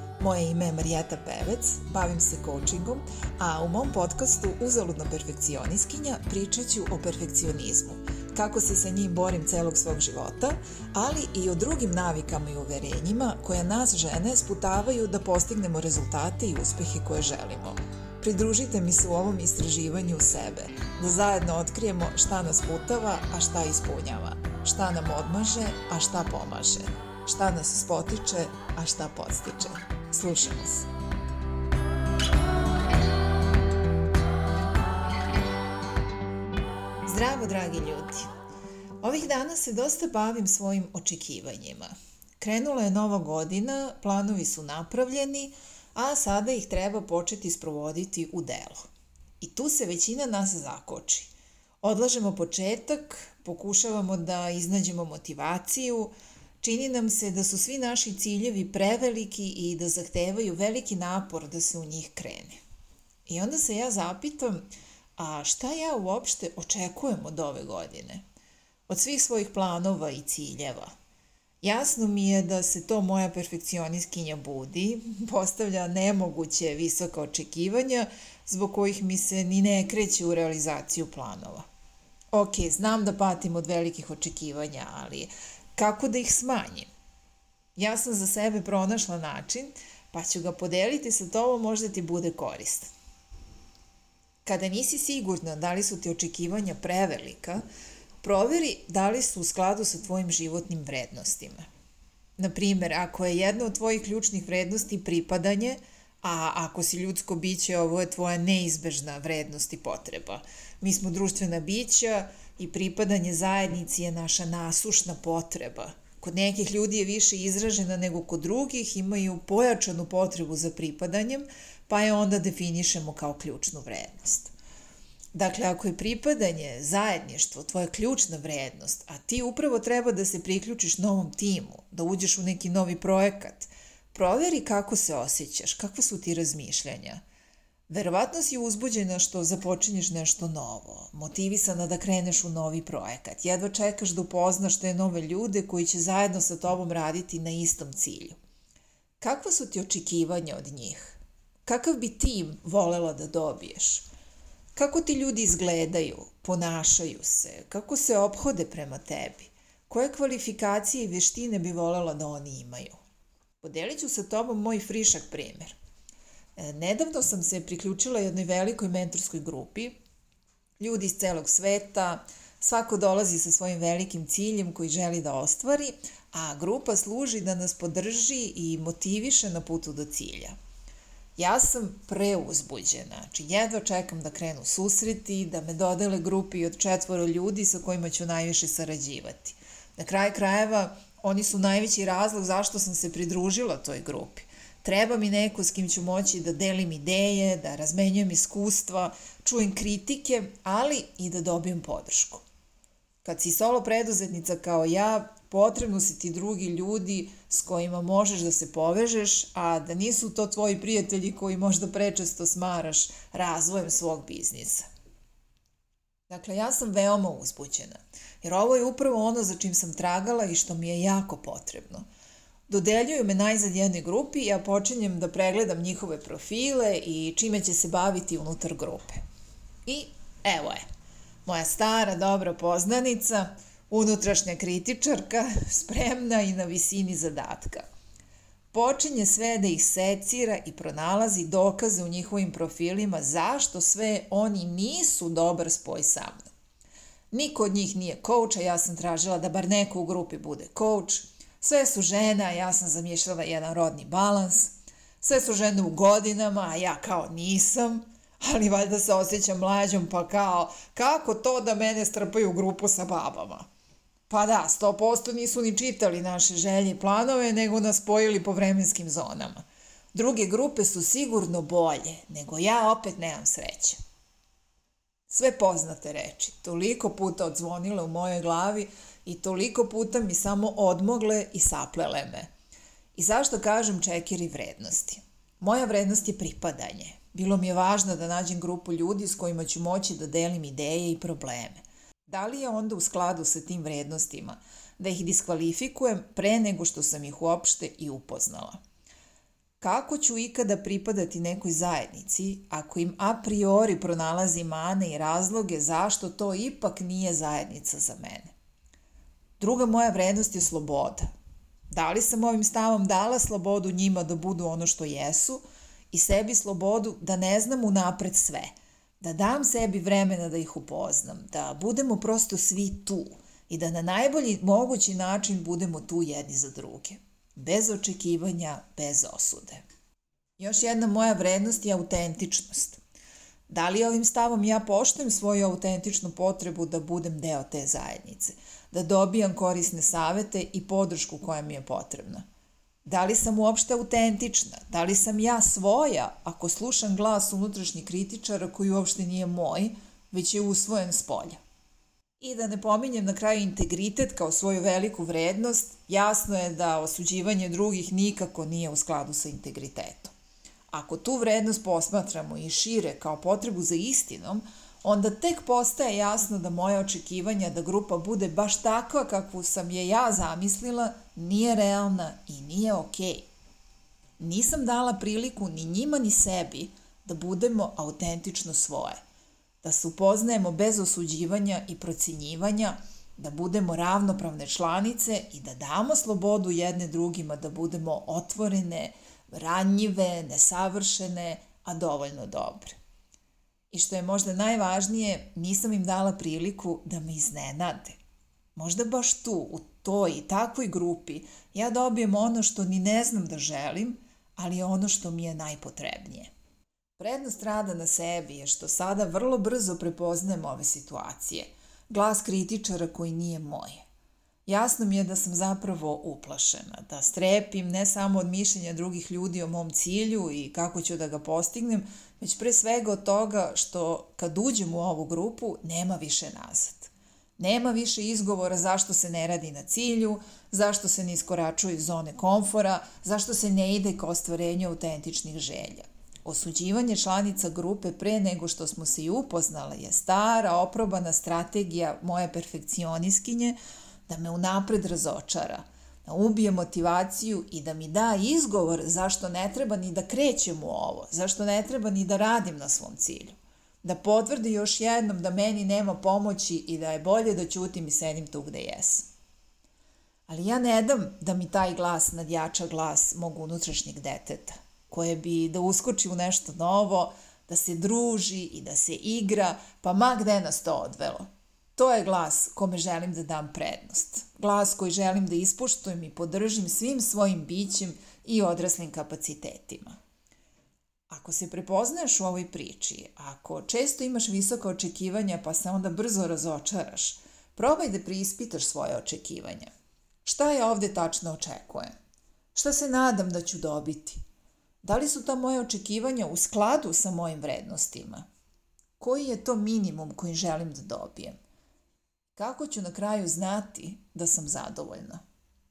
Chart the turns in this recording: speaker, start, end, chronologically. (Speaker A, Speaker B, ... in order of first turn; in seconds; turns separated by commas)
Speaker A: 0.2-30.9, Speaker A: 37.0-38.3, Speaker A: 39.0-48.9, Speaker A: 49.4-62.6, Speaker A: 63.3-68.2, Speaker A: 68.9-70.9, Speaker A: 71.6-81.7, Speaker A: 82.3-86.9, Speaker A: 87.8-92.9, Speaker A: 94.5-97.6, Speaker A: 98.2-101.7, Speaker A: 102.4-124.5, Speaker A: 125.3-137.2, Speaker A: 137.9-148.4, Speaker A: 149.2-154.1, Speaker A: 154.8-163.0, Speaker A: 163.6-165.8, Speaker A: 166.6-169.9, Speaker A: 170.8-180.6, Speaker A: 181.4-202.4, Speaker A: 203.2-214.8, Speaker A: 216.3-222.1, Speaker A: 222.7-229.2, Speaker A: 229.9-230.8, Speaker A: 231.5-237.9, Speaker A: 238.7-246.5, Speaker A: 247.3-263.7, Speaker A: 264.3-269.6, Speaker A: 270.1-274.0, Speaker A: 275.3-282.5, Speaker A: 283.1-298.8, Speaker A: 299.8-308.5, Speaker A: 309.6-311.3, Speaker A: 311.9-329.8, Speaker A: 330.6-333.0, Speaker A: 333.7-342.4, Speaker A: 343.1-351.6, Speaker A: 352.4-360.3, Speaker A: 360.9-373.5, Speaker A: 374.4-379.2, Speaker A: 379.8-393.0, Speaker A: 393.9-398.2, Speaker A: 398.8-406.5, Speaker A: 407.2-414.0, Speaker A: 414.7-443.8, Speaker A: 444.3-459.3, Speaker A: 460.5-480.2, Speaker A: 481.3-489.9, Speaker A: 490.4-492.1, Speaker A: 492.8-494.4, Speaker A: 495.0-498.5, Speaker A: 499.2-501.6, Speaker A: 502.6-505.4